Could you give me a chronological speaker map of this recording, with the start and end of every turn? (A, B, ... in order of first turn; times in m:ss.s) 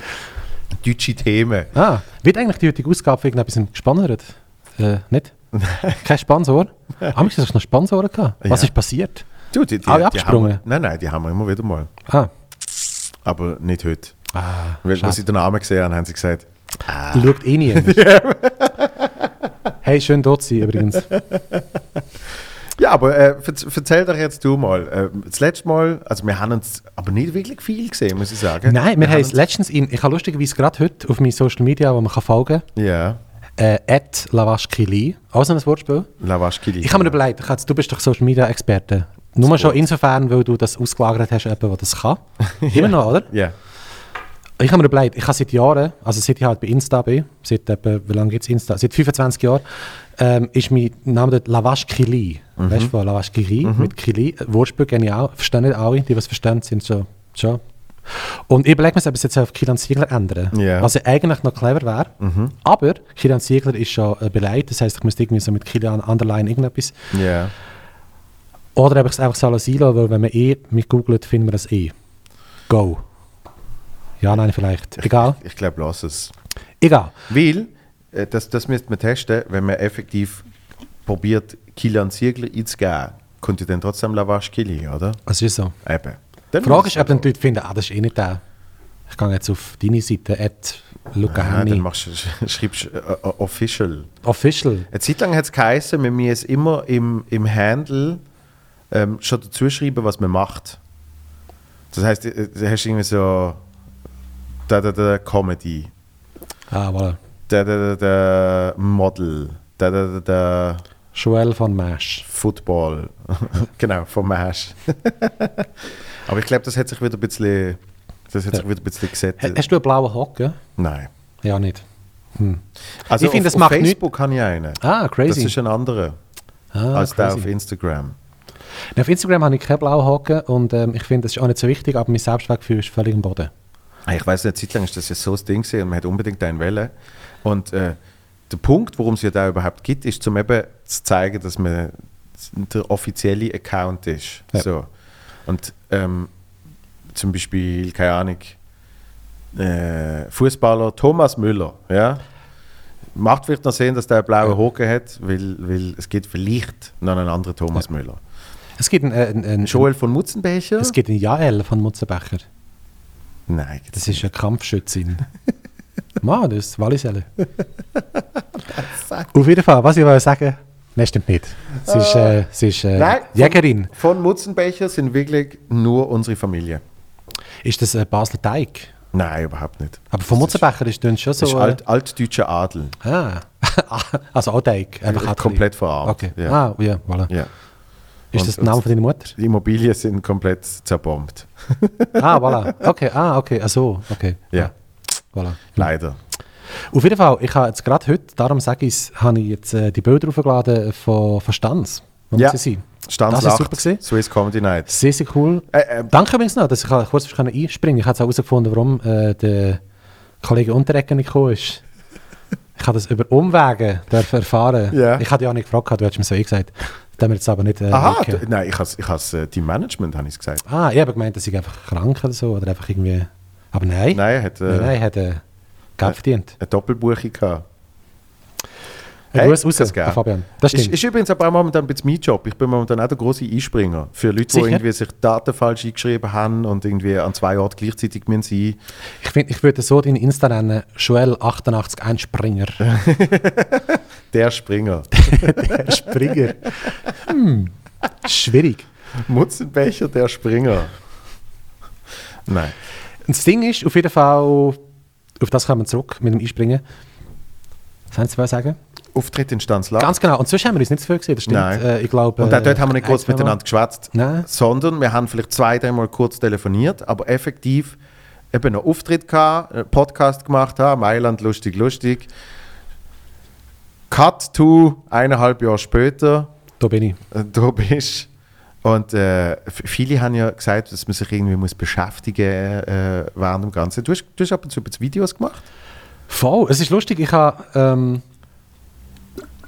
0:00.8-0:01.7 A
0:01.7-0:05.3 B
0:05.5-0:06.0 A
0:06.0-0:09.2 B
0:08.4-0:08.7 A
0:09.5-0:11.9 A
0:09.8-0:10.6 B
0:13.2-0:14.2 A
0:14.3-0:15.2 B
0:14.8-0:19.1 A
0:17.1-0:18.0 B
0:19.8-0:21.1 B
0:22.8-0:29.4 A
0:28.6-0:32.6 B
0:32.7-0:33.2 A
0:33.6-0:36.1 B
0:36.2-0:37.2 A
0:36.8-0:43.3 B
0:39.4-0:39.8 A
0:42.4-0:43.5 A
0:44.6-0:49.6 B
0:50.2-1:07.0 B
0:52.6-0:52.9 A
0:53.6-0:53.9 A
1:00.5-1:00.9 A
1:02.2-1:02.5 A
1:07.1-1:07.5 A
1:08.8-1:11.9 B
1:12.7-1:13.0 B
1:14.2-1:15.4 B
1:15.0-1:16.3 A
1:16.8-1:17.1 B
1:17.3-1:20.4 A
1:21.0-1:25.2 A
1:25.3-1:25.7 B
1:25.8-1:27.3 A
1:26.6-1:28.4 B
1:29.1-1:31.8 B
1:31.2-1:34.1 A
1:34.2-1:34.9 B
1:34.9-1:38.2 A
1:38.9-1:40.8 A
1:41.9-1:43.6 A
1:44.7-1:45.9 A
1:46.7-1:47.2 B
1:47.5-1:50.8 A
1:51.1-1:52.2 B
1:52.2-1:55.7 A
1:56.2-1:57.8 A
1:58.3-1:59.6 A
1:59.4-2:00.6 B
2:00.8-2:01.1 A
2:01.4-2:01.8 B
2:02.4-2:04.0 B
2:03.0-2:06.2 A
2:04.8-2:05.5 B
2:06.7-2:07.5 B
2:06.9-2:08.2 A
2:08.9-2:13.5 B
2:14.1-2:16.9 A
2:17.4-2:18.0 A
2:18.5-2:24.9 A
2:25.4-2:26.3 A
2:27.1-2:28.6 A
2:29.5-2:32.2 A
2:33.2-2:38.2 A
2:38.8-2:39.9 B
2:39.6-2:41.0 A
2:40.8-2:42.4 B
2:43.5-2:44.2 A
2:43.9-2:45.2 B
2:46.2-2:47.3 B
2:48.8-2:49.3 A
2:49.3-2:53.9 B
2:51.8-2:52.4 A
2:52.9-2:56.8 A
2:57.6-2:58.9 B
2:59.1-3:00.6 A
3:00.1-3:01.8 B
3:01.4-3:03.0 A
3:03.0-3:07.3 B
3:05.1-3:06.6 A
3:08.3-3:09.3 B
3:08.3-3:08.8 A
3:09.3-3:12.7 A
3:12.2-3:14.7 B
3:15.3-3:15.8 B
3:15.7-3:16.2 A
3:16.9-3:24.0 B
3:22.3-3:25.0 A
3:24.9-3:29.8 B
3:25.7-3:26.1 A
3:30.4-3:31.8 B
3:32.8-3:38.4 B
3:34.9-3:35.2 A
3:37.9-3:40.6 A
3:40.6-3:45.4 B
3:44.1-3:44.9 A
3:46.0-3:46.5 B
3:46.0-3:47.6 A
3:49.3-3:51.0 B
3:49.3-3:58.8 A
3:54.5-3:54.8 B
3:59.2-4:02.8 B
4:02.8-4:06.3 A
4:05.1-4:07.7 B
4:08.2-4:08.8 B
4:09.2-4:11.0 A
4:12.4-4:12.7 A
4:13.2-4:14.8 B
4:15.4-4:16.8 B
4:18.1-4:18.8 B
4:19.1-4:20.1 A
4:20.0-4:23.6 B
4:21.5-4:21.8 A
4:22.4-4:28.0 A
4:24.1-4:24.4 B
4:28.5-4:32.3 A
4:34.1-4:36.5 A
4:36.8-4:37.2 B
4:37.3-4:38.3 A
4:38.8-4:45.6 A
4:46.3-4:48.2 B